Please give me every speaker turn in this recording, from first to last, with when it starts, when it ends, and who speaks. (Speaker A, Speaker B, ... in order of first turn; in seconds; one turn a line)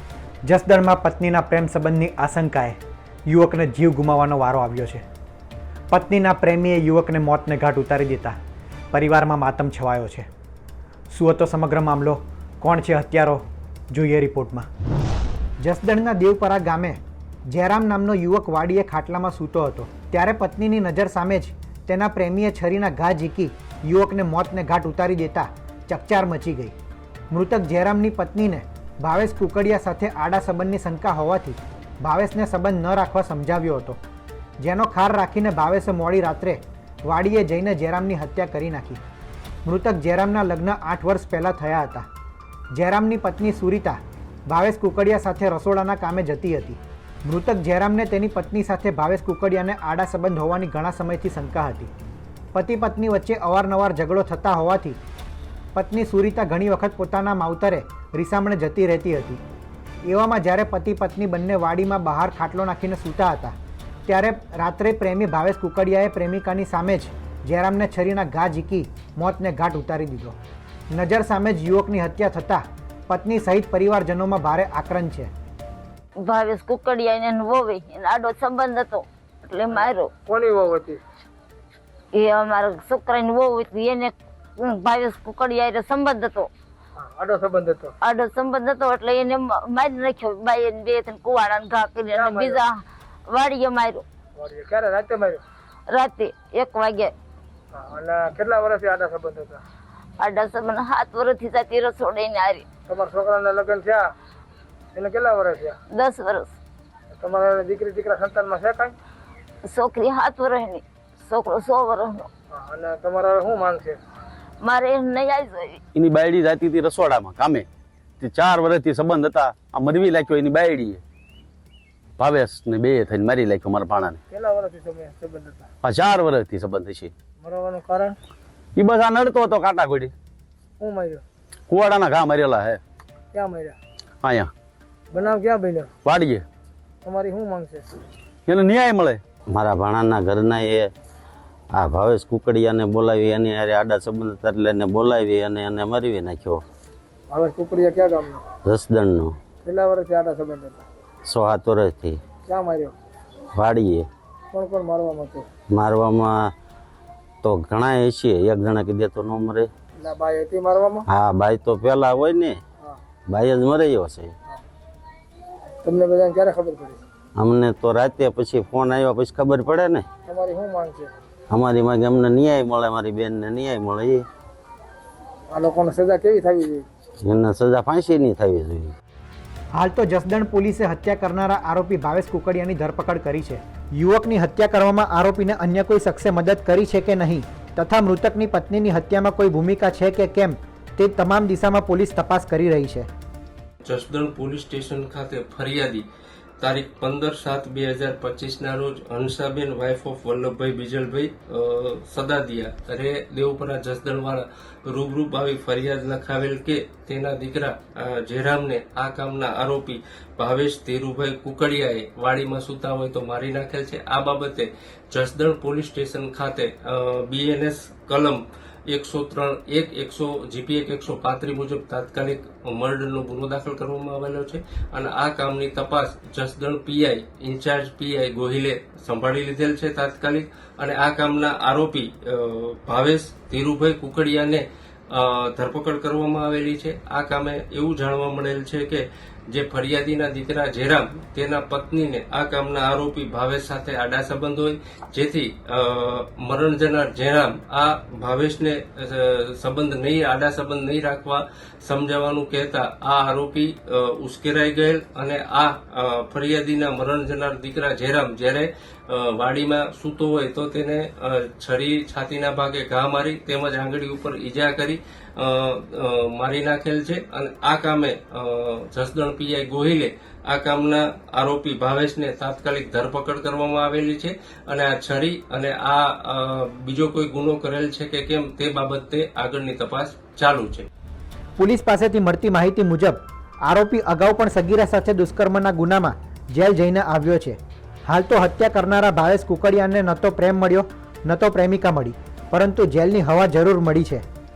Speaker A: 0.4-5.0
Speaker A: 5.9-8.3
Speaker A: 8.9-10.3
Speaker A: 11.1-14.7
Speaker A: 15.6-26.7
Speaker A: 27.3-34.0
Speaker A: 34.6-39.0
Speaker A: 39.6-42.1
Speaker A: 42.7-51.9
Speaker A: 52.5-55.0
Speaker A: 55.7-59.4
Speaker A: 60.0-63.5
Speaker A: 64.1-70.3
Speaker A: 70.9-75.3
Speaker B: 76.2-80.1
Speaker C: 80.3-81.0
Speaker B: 82.1-86.5
Speaker C: 87.0-87.9
Speaker B: 88.0-94.0
Speaker C: 92.1-92.6
Speaker C: 94.4-95.4
Speaker B: 95.9-97.1
Speaker C: 97.7-99.6
Speaker B: 100.2-102.7
Speaker C: 102.9-104.0
Speaker C: 104.9-105.7
Speaker B: 105.9-106.5
Speaker C: 107.2-108.9
Speaker B: 109.7-112.3
Speaker C: 112.5-114.0
Speaker B: 114.6-115.8
Speaker D: 115.9-117.7
Speaker D: 118.2-121.0
Speaker D: 122.2-124.2
Speaker C: 124.3-125.7
Speaker D: 125.8-127.1
Speaker C: 127.4-128.2
Speaker D: 128.8-130.1
Speaker C: 130.8-131.2
Speaker D: 131.7-132.8
Speaker C: 133.3-133.8
Speaker D: 134.2-134.5
Speaker C: 135.1-135.9
Speaker D: 136.0-136.4
Speaker C: 137.0-137.9
Speaker D: 138.5-139.2
Speaker E: 139.5-140.9
Speaker E: 141.7-146.6
Speaker C: 147.3-148.4
Speaker E: 148.6-149.4
Speaker C: 149.6-150.8
Speaker E: 151.2-152.2
Speaker C: 152.4-152.9
Speaker E: 153.5-154.1
Speaker C: 154.5-155.5
Speaker E: 155.7-156.5
Speaker E: 157.4-159.7
Speaker C: 160.0-161.0
Speaker E: 161.1-162.6
Speaker E: 163.3-164.3
Speaker C: 165.8-167.0
Speaker E: 167.3-170.0
Speaker C: 170.3-171.1
Speaker E: 171.5-174.2
Speaker C: 175.5-176.8
Speaker E: 177.2-178.9
Speaker A: 179.8-193.1
Speaker F: 193.8-196.0
Speaker F: 196.6-280.9
Speaker A: 281.6-294.2